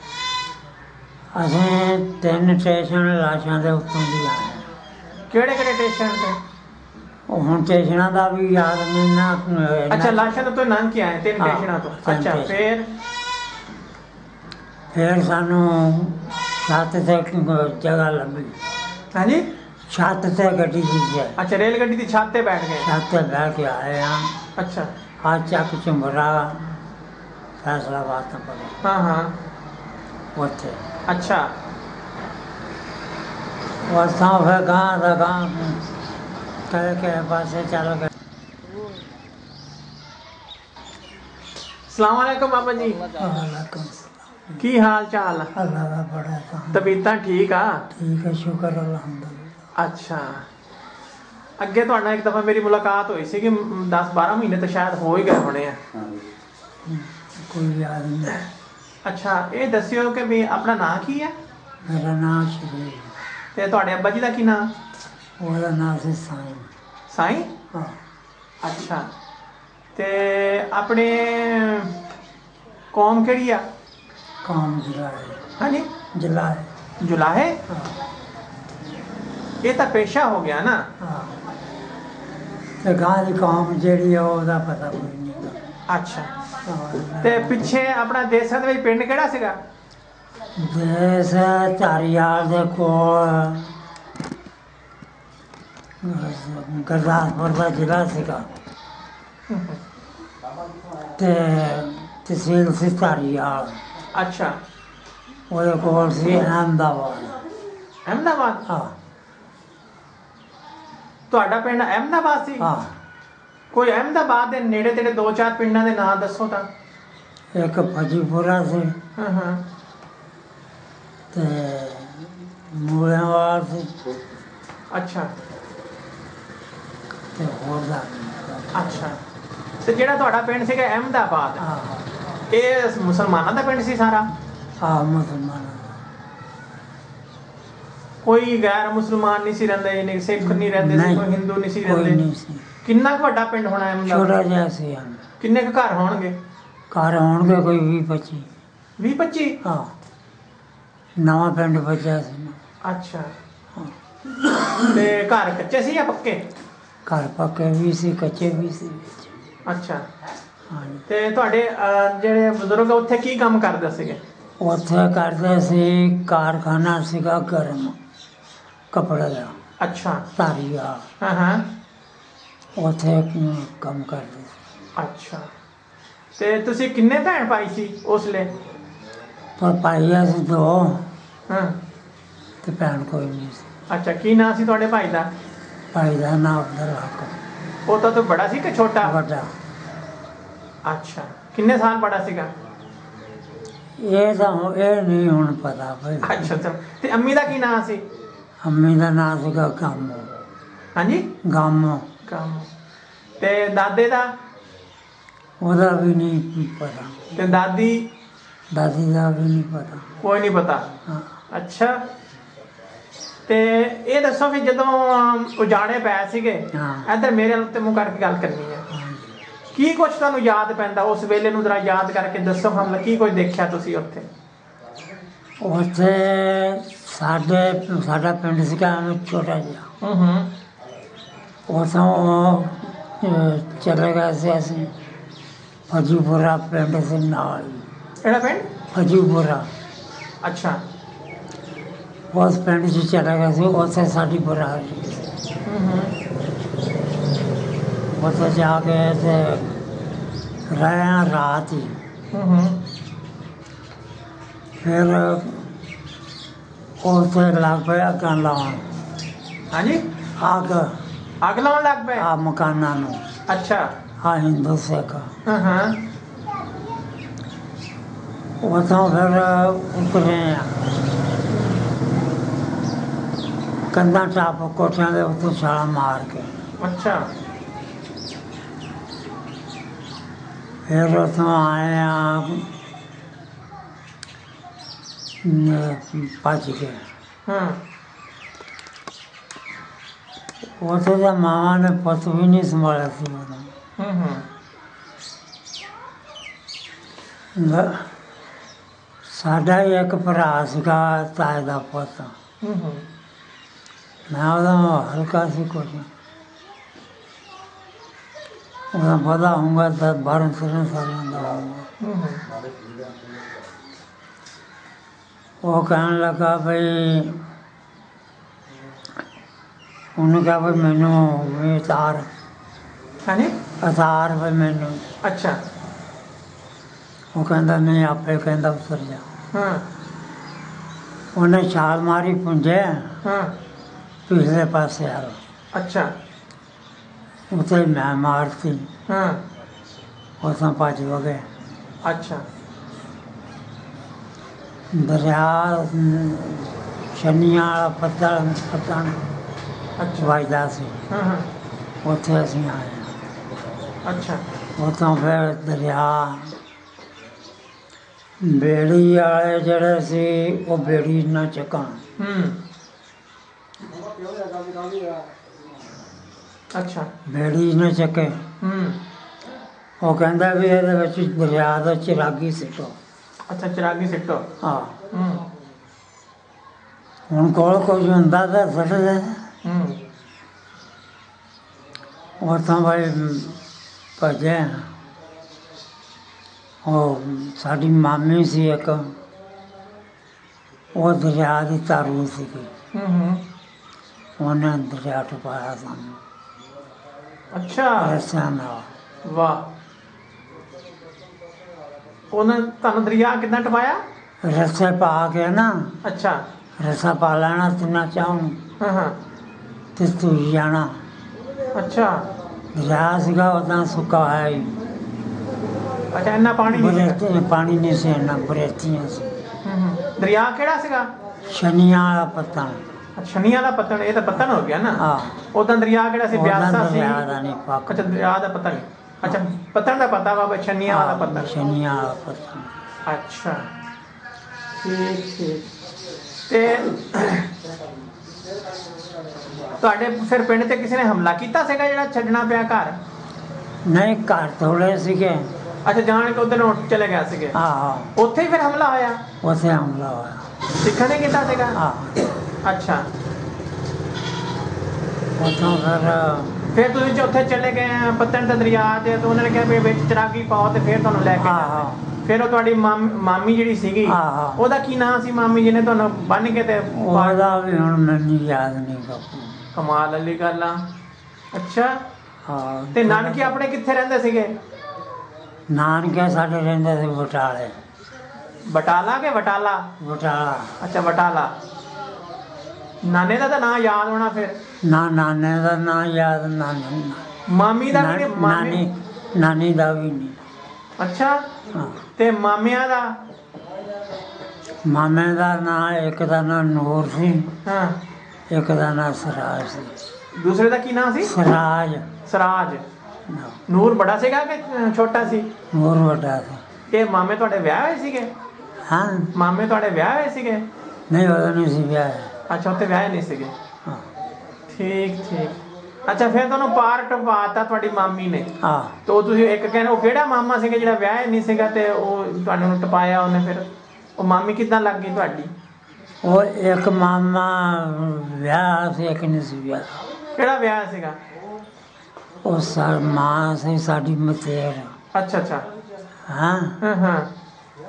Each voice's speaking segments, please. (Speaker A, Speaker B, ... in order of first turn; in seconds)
Speaker A: 1.3-4.7, 7.3-10.4, 11.4-12.7, 14.9-18.6, 19.9-21.4, 22.8-24.3, 25.2-26.7, 27.6-28.8, 30.3-30.8, 33.9-35.9, 36.7-38.1, 43.1-44.6, 45.5-47.0, 47.9-49.6, 56.9-58.4, 61.9-63.1, 65.4-66.7, 67.7-68.0, 74.4-75.4, 76.1-76.7, 77.7-78.0, 81.0-81.4, 82.8-85.6, 86.6-87.7, 90.6-93.8, 96.0-98.5, 101.2-103.8, 105.5-107.4, 108.7-109.0, 112.6-113.0, 117.5-119.0, 121.3-124.2, 127.3-129.1, 131.6-132.1, 134.8-136.0, 140.4-141.3, 141.8-142.7, 144.1-145.2, 146.9-148.5, 149.6-149.9, 151.2-152.6, 157.1-159.3, 160.7-161.0, 164.6-168.0, 168.9-169.6, 170.4-171.1, 172.8-174.6, 179.6-181.1, 182.6-183.7, 185.9-187.4, 189.0-189.5, 194.0-196.6, 198.6-200.3, 201.4-202.1, 205.6-207.5, 208.7-210.1, 216.7-217.1, 218.9-219.3, 225.6-229.9, 231.7-234.9, 235.9-237.9, 238.9-239.7, 242.3-245.3, 248.1-249.7, 250.7-252.0, 254.8-255.7, 257.0-258.9, 260.4-261.0, 262.2-263.2, 264.2-265.3, 268.6-270.8, 273.9-276.6, 280.9-282.7, 285.4-287.0, 290.8-293.7, 297.5-298.1, 299.3-302.3, 304.3-306.1, 308.9-311.9, 315.6-317.4, 320.1-322.3, 323.8-325.0, 327.3-329.3, 331.3-333.2, 334.3-335.4, 337.5-338.9, 340.4-341.5, 344.9-349.2, 350.2-351.1, 352.0-353.1, 354.8-356.5, 358.4-362.0, 367.2-368.5, 370.0-373.0, 374.6-375.0, 377.3-379.5, 382.4-383.6, 384.2-384.9, 386.8-389.1, 390.9-392.7, 394.4-396.2, 398.0-398.9, 404.4-406.0, 406.8-408.6, 409.9-411.0, 412.7-414.8, 416.7-419.4, 421.5-422.8, 424.9-425.4, 426.3-428.2, 430.9-432.8, 443.8-445.5, 447.5-448.1, 449.4-450.5, 451.7-452.2, 455.4-456.6, 461.4-462.1, 464.0-464.6, 466.9-469.6, 472.4-473.6, 475.7-477.8, 480.0-480.8, 484.8-487.2, 487.9-490.4, 491.7-492.0, 494.8-497.6, 498.5-500.0, 501.2-502.1, 503.3-503.6, 505.7-506.6, 508.8-509.3, 511.1-512.3, 518.6-519.0, 526.2-530.0, 532.4-535.0, 536.3-536.8
Speaker B: 5.3-6.4, 9.9-12.9, 19.1-19.4, 21.4-22.9, 24.6-24.9, 28.8-29.3, 31.1-31.5, 41.9-43.1, 44.6-45.5, 46.7-47.9, 49.7-50.5, 51.6-55.8, 59.0-61.3, 63.5-64.7, 67.1-67.5, 68.6-69.1, 70.0-71.9, 72.9-73.7, 75.6-75.9, 77.0-77.6, 79.6-80.9, 85.9-86.3, 87.2-89.6, 99.5-99.8, 104.1-104.6, 108.1-108.6, 111.3-112.7, 113.7-116.7, 119.2-119.6, 124.9-125.3, 128.7-129.2, 129.8-131.6, 132.5-134.3, 138.2-142.2, 142.8-144.3, 145.4-146.4, 149.0-149.6, 152.8-153.3, 154.9-156.4, 159.7-160.1, 161.1-164.2, 169.8-170.2, 171.2-171.7, 175.0-175.5, 176.4-178.5, 181.5-181.8, 183.9-185.3, 187.9-189.2, 190.9-192.5, 196.2-198.0, 200.9-201.3, 202.2-202.7, 203.4-204.3, 207.4-208.1, 210.2-210.8, 211.5-212.0, 213.5-218.8, 219.7-224.3, 230.0-230.5, 238.2-238.7, 240.4-240.8, 245.7-246.1, 252.3-252.8, 259.7-260.0, 261.4-262.3, 263.5-263.9, 265.4-266.0, 271.5-271.8, 276.8-277.3, 287.4-287.8, 294.0-294.4, 302.6-303.0, 312.0-312.4, 323.2-323.6, 325.2-325.6, 329.5-329.8, 333.2-333.5, 335.7-336.1, 339.1-339.4, 342.0-342.4, 350.0-350.4, 351.1-351.5, 354.1-354.4, 362.2-362.6, 366.7-367.1, 368.6-369.0, 373.5-374.5, 375.1-375.4, 379.6-380.0, 392.9-393.4, 397.5-398.2, 399.2-399.7, 402.3-404.0, 406.0-406.4, 408.8-409.1, 411.7-412.2, 416.1-417.2, 419.6-421.1, 423.2-427.2, 427.9-431.5, 433.1-433.7, 434.8-435.7, 436.5-437.5, 439.7-443.0, 445.8-447.6, 448.1-449.2, 450.8-451.8, 452.6-453.1, 456.7-467.4, 469.8-470.8, 471.5-472.0, 472.9-474.5, 478.7-479.9, 480.8-481.5, 483.0-484.6, 487.5-488.8, 491.0-491.4, 492.2-493.2, 497.6-498.0, 500.3-501.3, 502.2-502.8, 503.7-505.5, 506.9-508.3, 509.3-510.7, 512.5-513.5, 514.7-518.5, 519.1-525.5, 530.4-531.2, 535.1-535.7, 536.8-537.3